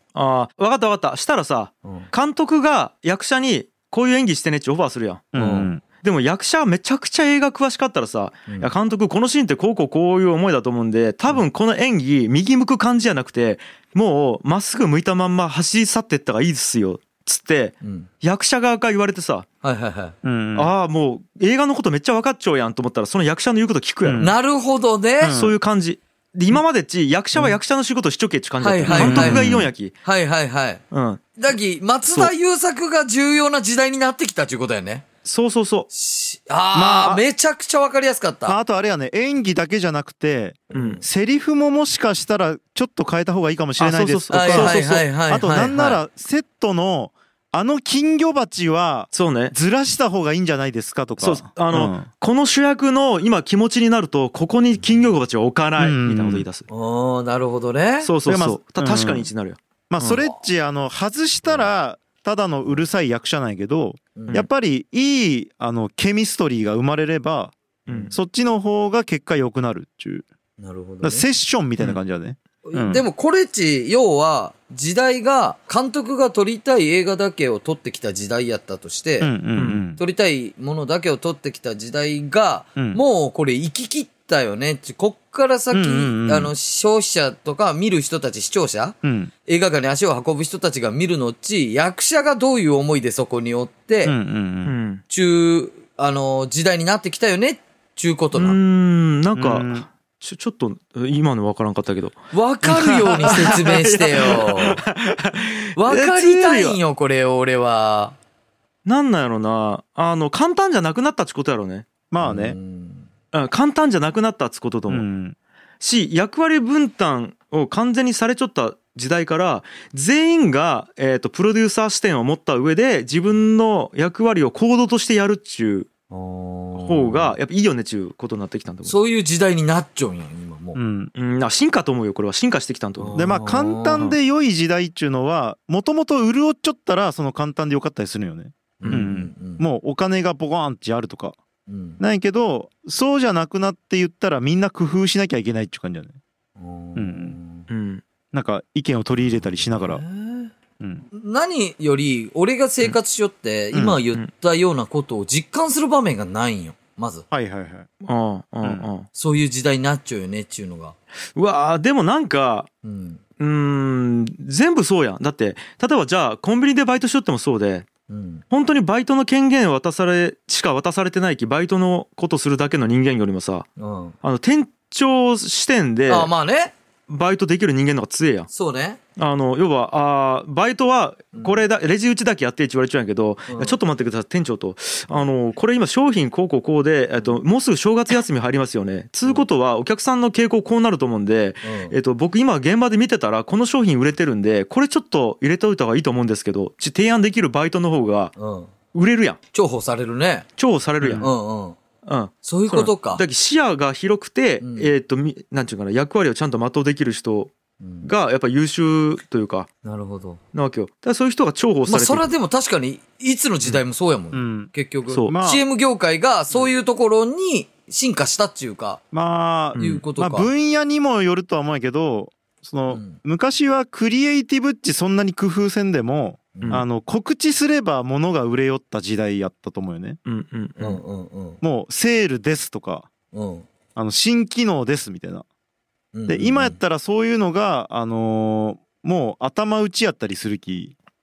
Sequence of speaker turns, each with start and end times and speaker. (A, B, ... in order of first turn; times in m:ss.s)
0:00.2-0:05.3 A
0:01.8-0:02.1 B
0:05.3-0:05.8 C
0:05.4-0:05.7 B
0:06.0-0:19.5 A
0:08.5-0:08.7 B
0:17.8-0:18.1 B
0:19.6-0:20.2 B
0:20.2-0:20.7 C
0:20.6-0:24.3 A
0:24.0-0:24.3 C
0:24.2-0:25.4 B
0:25.2-0:25.6 C
0:25.3-0:29.9 A
0:28.6-0:30.8 B
0:28.9-0:29.7 C
0:30.9-0:31.4 A
0:31.4-0:35.0 B
0:35.2-0:35.9 A
0:35.9-0:38.6 B
0:36.7-0:37.2 C
0:38.5-0:52.1 C
0:40.7-0:41.0 B
0:40.7-0:41.0 A
0:43.8-0:45.1 A
0:44.3-0:46.0 B
0:49.1-0:49.5 A
0:51.2-0:56.7 A
0:55.8-0:56.5 C
0:56.7-0:58.1 B
0:58.0-1:00.2 A
0:58.3-0:59.3 C
0:59.9-1:07.6 C
1:04.2-1:04.5 B
1:07.9-1:08.1 B
1:07.9-1:08.2 A
1:08.1-1:10.3 C
1:10.6-1:11.3 B
1:11.0-1:13.0 C
1:12.6-1:19.3 B
1:19.2-1:20.0 C
1:19.6-1:19.8 A
1:20.0-1:34.2 B
1:25.7-1:26.5 C
1:29.0-1:29.3 C
1:34.0-1:34.7 C
1:34.6-1:35.0 A
1:35.1-1:38.6 B
1:38.4-1:46.8 A
1:39.4-1:39.8 C
1:42.3-1:44.8 B
1:45.8-1:48.2 B
1:48.8-1:51.9 A
1:52.1-1:52.6 C
1:52.2-1:53.1 B
1:53.3-1:55.0 A
1:54.9-1:55.4 C
1:55.8-2:05.9 A
2:06.1-2:07.4 B
2:06.8-2:09.0 A
2:08.8-2:10.8 B
2:10.8-2:11.1 C
2:11.2-2:13.2 A
2:13.0-2:14.0 B
2:13.2-2:21.4 C
2:18.8-2:19.6 B
2:21.7-2:22.0 B
2:22.0-2:26.2 C
2:26.6-2:27.7 B
2:27.0-2:27.4 C
2:27.7-2:28.0 A
2:28.3-2:30.0 C
2:29.3-2:30.5 B
2:30.8-2:31.0 C
2:31.1-2:37.3 B
2:33.7-2:34.0 C
2:37.3-2:37.9 C
2:38.0-2:39.1 A
2:39.1-2:41.0 B
2:41.4-2:42.7 A
2:42.8-2:43.2 B
2:43.4-2:47.9 A
2:48.1-2:48.4 B
2:48.5-2:53.7 A
2:53.8-2:54.2 B
2:54.2-2:56.3 A
2:56.1-2:56.7 B
2:57.1-2:58.5 A
2:58.5-2:59.0 B
2:59.2-3:18.3 A
3:01.3-3:01.6 B
3:03.5-3:03.8 B
3:11.6-3:12.0 B
3:18.4-3:18.7 B
3:18.9-3:19.4 A
3:19.5-3:20.5 B
3:20.6-3:21.3 A
3:21.0-3:21.3 C
3:21.2-3:21.8 B
3:22.0-3:29.7 A
3:22.4-3:23.2 B
3:24.6-3:24.9 B
3:27.8-3:28.1 B
3:29.8-3:30.4 B
3:30.5-3:32.3 A
3:31.9-3:39.0 B
3:34.3-3:34.7 C
3:35.1-3:35.3 A
3:35.3-3:35.6 C
3:39.1-3:50.2 C
3:39.8-3:40.0 A
3:39.8-3:40.5 B
3:42.9-3:43.2 B
3:46.6-3:46.8 B
3:50.3-3:51.0 A
3:50.8-3:51.6 B
3:51.6-3:53.1 C
3:53.3-3:53.7 B
3:54.0-3:55.5 C
3:56.1-3:56.8 B
3:56.3-4:01.0 C